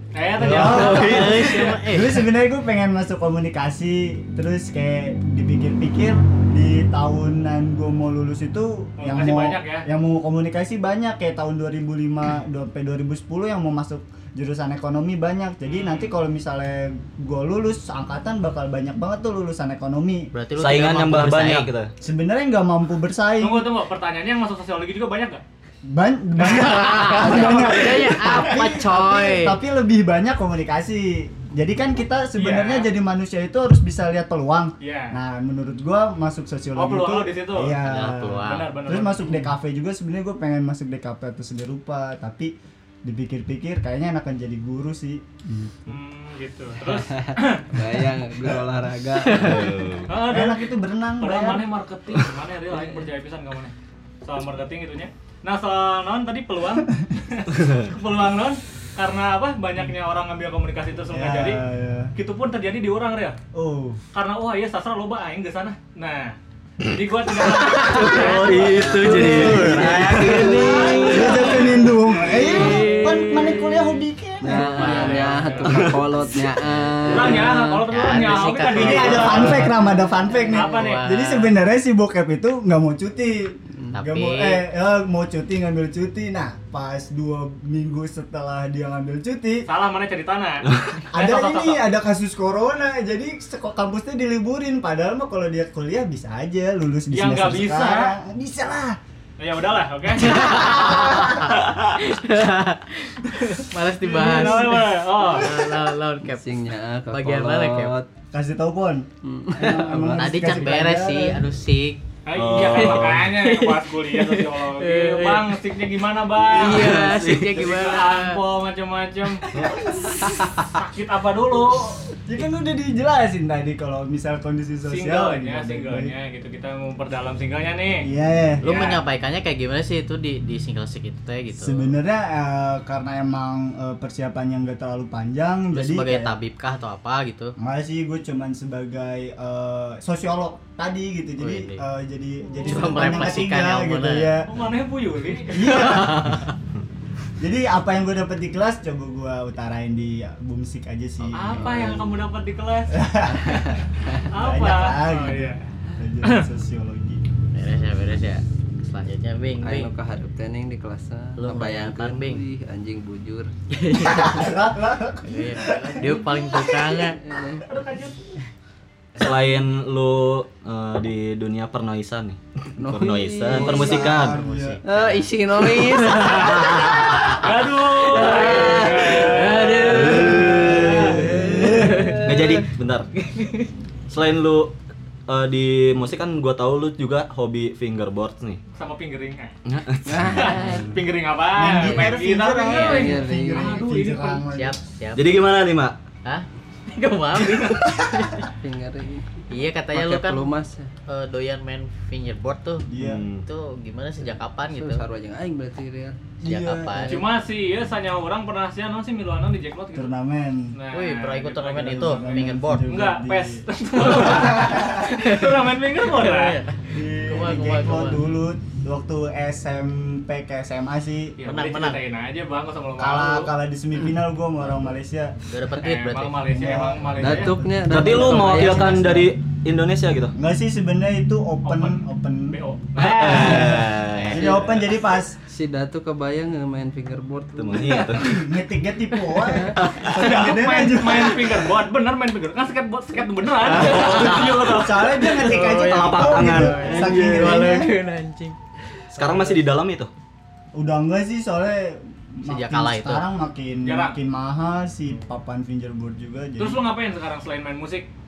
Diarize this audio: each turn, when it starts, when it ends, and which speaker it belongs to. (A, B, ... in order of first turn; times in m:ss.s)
0:00.1-0:01.8 A
0:00.3-0:20.3 B
0:00.5-0:01.0 C
0:00.6-0:02.3 D
0:09.0-0:09.8 A
0:15.6-0:16.1 A
0:20.3-0:21.7 D
0:20.6-0:21.9 C
0:22.0-0:23.7 B
0:23.4-0:25.4 A
0:25.8-0:42.5 B
0:26.4-0:29.6 D
0:27.1-0:27.7 A
0:32.4-0:32.9 A
0:34.8-0:35.2 A
0:36.8-0:37.8 A
0:37.8-0:38.7 D
0:38.4-0:39.4 A
0:43.0-0:45.9 B
0:45.9-0:47.6 A
0:46.9-0:49.8 E
0:49.2-0:49.9 D
0:49.3-0:50.1 C
0:50.1-1:01.6 A
0:50.2-0:51.7 B
1:01.1-1:02.1 B
1:02.2-1:03.4 A
1:03.5-1:04.0 B
1:04.1-1:11.8 A
1:07.8-1:11.2 C
1:07.8-1:15.9 D
1:09.1-1:09.6 E
1:10.7-1:11.0 E
1:11.0-1:15.7 B
1:12.5-1:12.9 A
1:14.4-1:17.9 E
1:15.1-1:15.8 A
1:17.1-1:19.7 A
1:17.3-1:19.7 D
1:18.7-1:29.6 B
1:19.1-1:19.7 E
1:20.3-1:21.6 D
1:20.5-1:21.2 A
1:23.9-1:24.6 D
1:29.6-1:31.8 A
1:30.7-1:31.0 C
1:31.1-1:39.0 B
1:37.1-1:38.1 A
1:39.4-1:41.2 A
1:40.2-1:47.9 D
1:40.9-1:41.5 B
1:44.0-1:45.6 A
1:44.2-1:44.6 B
1:46.2-1:48.1 E
1:48.3-1:51.4 B
1:49.2-1:50.7 E
1:50.1-1:52.0 D
1:52.2-2:02.1 A
1:52.3-1:53.3 C
1:52.6-1:55.6 D
1:56.4-1:58.4 D
1:56.6-1:57.6 C
2:02.2-2:06.1 B
2:04.8-2:08.1 A
2:08.0-2:08.7 B
2:08.6-2:11.9 D
2:08.6-2:09.0 A
2:11.6-2:16.4 B
2:15.7-2:17.5 D
2:17.6-2:24.5 B
2:21.4-2:21.8 D
2:22.6-2:24.3 D
2:24.4-2:25.7 A
2:25.5-2:26.4 B
2:25.6-2:26.5 D
2:27.4-2:32.2 B
2:31.3-2:33.0 A
2:32.9-2:37.2 B
2:34.3-2:35.7 A
2:37.5-2:39.9 D
2:39.6-2:43.5 E
2:41.4-2:42.4 D
2:43.7-2:44.6 D
2:43.9-2:47.1 B
2:45.2-2:47.2 D
2:47.2-2:47.6 E
2:47.6-2:48.2 A
2:49.2-2:54.4 C
2:52.8-2:53.9 E
2:53.5-2:54.8 B
2:53.5-3:02.3 D
2:54.8-2:57.4 E
2:56.4-3:01.2 A
2:58.1-3:02.6 E
2:59.9-3:01.2 C
3:00.1-3:02.1 B
3:02.2-3:03.1 C
3:03.2-3:03.7 D
3:04.1-3:04.7 C
3:05.3-3:08.6 C
3:08.7-3:09.6 A
3:09.6-3:10.6 C
3:10.0-3:11.0 E
3:10.3-3:14.4 A
3:11.6-3:14.8 B
3:12.7-3:13.0 D
3:12.8-3:13.8 E
3:14.5-3:15.5 D
3:15.1-3:16.0 C
3:16.2-3:18.5 D
3:18.6-3:20.9 E
3:19.5-3:20.5 D
3:21.0-3:25.0 D
3:22.9-3:23.2 B
3:23.0-3:23.5 C
3:24.7-3:26.2 E
3:26.4-3:27.3 B
3:26.4-3:27.2 D
3:27.1-3:30.1 A
3:29.9-3:30.8 B
3:30.7-3:36.6 A
3:30.9-3:32.9 D
3:31.8-3:35.1 B
3:34.5-3:38.2 D
3:36.9-3:41.4 B
3:41.4-3:43.5 A
3:41.4-3:42.0 D
3:43.0-3:45.3 B
3:45.5-3:46.7 D
3:45.8-3:47.6 A
3:46.5-3:49.2 B
3:47.2-3:49.3 E
3:47.9-3:50.3 C
3:50.3-3:52.6 B
3:51.6-3:53.8 A
3:53.0-3:54.7 C
3:53.2-3:55.4 B
3:53.4-3:54.8 D
3:55.4-3:58.0 E
3:57.6-3:58.4 C
3:58.2-4:01.7 B
3:59.8-4:00.1 C
4:00.0-4:05.4 A
4:03.7-4:04.6 D
4:03.7-4:07.9 B
4:05.2-4:08.6 D
4:05.6-4:07.6 C
4:09.1-4:10.1 C
4:09.2-4:09.6 B
4:10.7-4:16.8 B
4:12.4-4:13.2 D
4:13.8-4:14.2 A
4:16.6-4:18.1 A